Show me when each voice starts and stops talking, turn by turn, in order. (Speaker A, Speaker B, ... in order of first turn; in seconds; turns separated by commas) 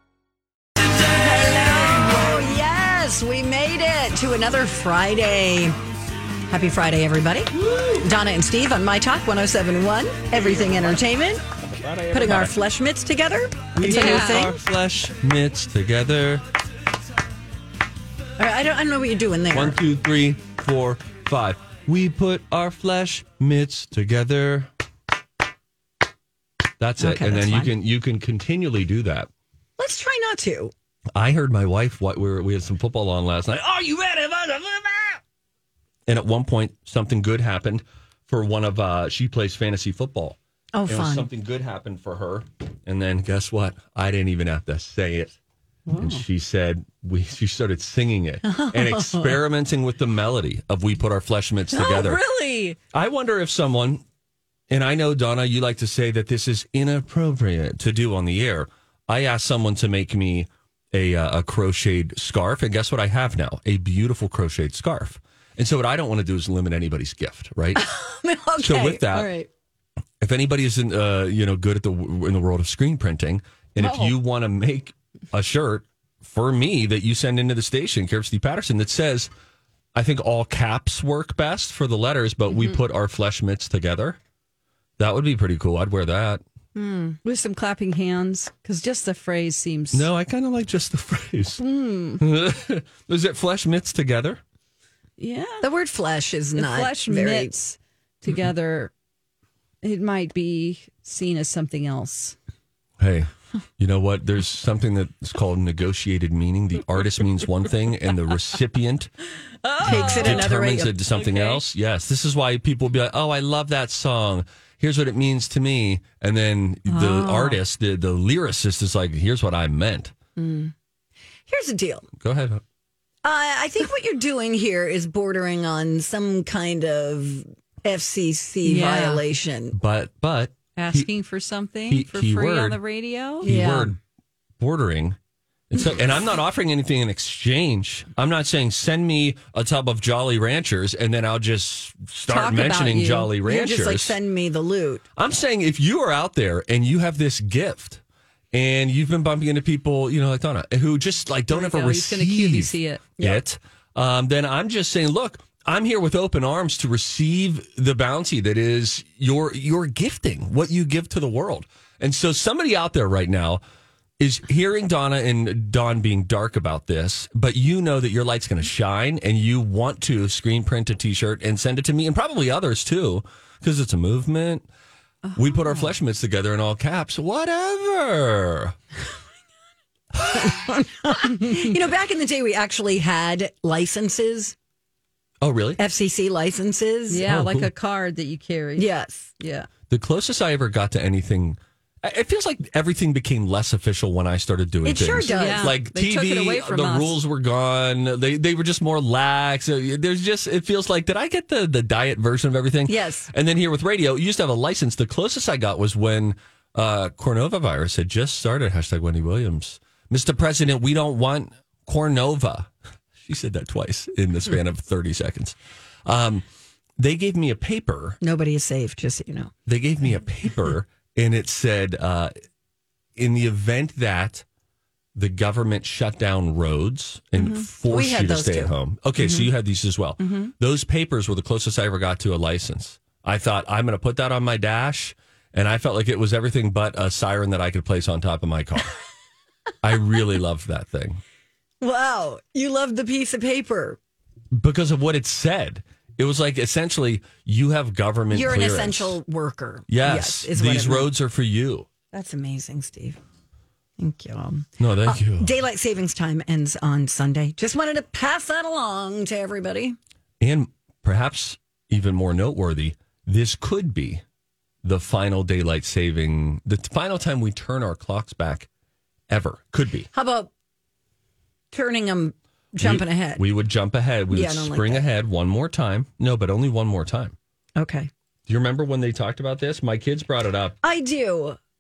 Speaker A: 0.9-5.8, Speaker A: 6.5-11.4, Speaker B: 10.3-11.1, Speaker B: 11.6-12.6, Speaker A: 12.1-14.6, Speaker B: 13.8-16.4, Speaker C: 13.8-14.5, Speaker A: 18.4-19.8, Speaker B: 19.5-24.7, Speaker B: 26.8-29.3, Speaker A: 27.0-27.7, Speaker A: 29.8-30.7, Speaker B: 31.1-35.2, Speaker B: 36.1-45.4, Speaker A: 40.7-41.3, Speaker C: 45.9-46.2, Speaker B: 46.0-52.2, Speaker A: 48.5-49.4, Speaker C: 51.7-52.8, Speaker B: 52.9-54.0, Speaker B: 54.7-67.8, Speaker A: 67.8-69.1, Speaker B: 68.6-69.3, Speaker C: 69.1-69.5, Speaker B: 70.2-79.3, Speaker C: 73.8-74.1, Speaker B: 79.9-84.2, Speaker B: 85.0-86.4, Speaker A: 86.8-87.2, Speaker C: 87.2-90.1, Speaker B: 89.9-91.6, Speaker C: 91.6-92.2, Speaker B: 92.2-94.4, Speaker C: 95.2-95.7, Speaker A: 95.6-97.5, Speaker C: 96.5-98.9, Speaker C: 99.8-102.4, Speaker B: 103.0-109.1, Speaker C: 109.6-110.5, Speaker A: 109.8-111.0, Speaker B: 109.8-120.1, Speaker C: 111.1-111.6, Speaker C: 116.9-117.6, Speaker A: 120.4-120.7, Speaker A: 121.5-122.1, Speaker B: 122.2-122.6, Speaker A: 123.2-129.8, Speaker C: 128.6-129.2, Speaker B: 129.7-131.1, Speaker C: 130.8-133.5, Speaker B: 131.9-132.8, Speaker B: 133.4-134.0, Speaker A: 133.4-134.0, Speaker B: 134.6-135.2, Speaker B: 135.7-144.2, Speaker C: 142.3-143.3, Speaker A: 143.4-145.0, Speaker B: 145.2-148.0, Speaker B: 148.5-163.6, Speaker C: 151.5-153.0, Speaker B: 164.2-174.7, Speaker C: 175.2-175.9, Speaker B: 175.4-178.8, Speaker A: 180.3-184.6, Speaker C: 181.2-181.6, Speaker B: 185.4-185.8, Speaker A: 185.8-187.3, Speaker C: 187.1-189.7, Speaker B: 187.2-187.7, Speaker A: 188.8-189.3, Speaker B: 189.9-216.5, Speaker A: 194.8-195.8, Speaker C: 195.3-197.2, Speaker A: 202.9-203.3, Speaker B: 217.0-218.2, Speaker A: 218.2-219.5, Speaker B: 219.7-222.3, Speaker B: 223.2-224.4, Speaker B: 225.2-238.9, Speaker A: 227.4-229.5, Speaker A: 230.2-230.5, Speaker B: 239.8-241.2, Speaker A: 241.8-244.0, Speaker B: 244.5-249.2, Speaker A: 248.3-251.1, Speaker B: 249.9-251.9, Speaker A: 252.1-253.2, Speaker A: 254.0-260.0, Speaker B: 254.8-255.5, Speaker B: 260.4-264.2, Speaker B: 264.8-268.7, Speaker B: 269.3-270.1, Speaker A: 270.1-270.5, Speaker A: 271.7-273.4, Speaker B: 272.8-277.4, Speaker A: 274.3-275.1, Speaker A: 277.8-278.1, Speaker B: 278.5-280.8, Speaker A: 280.8-281.6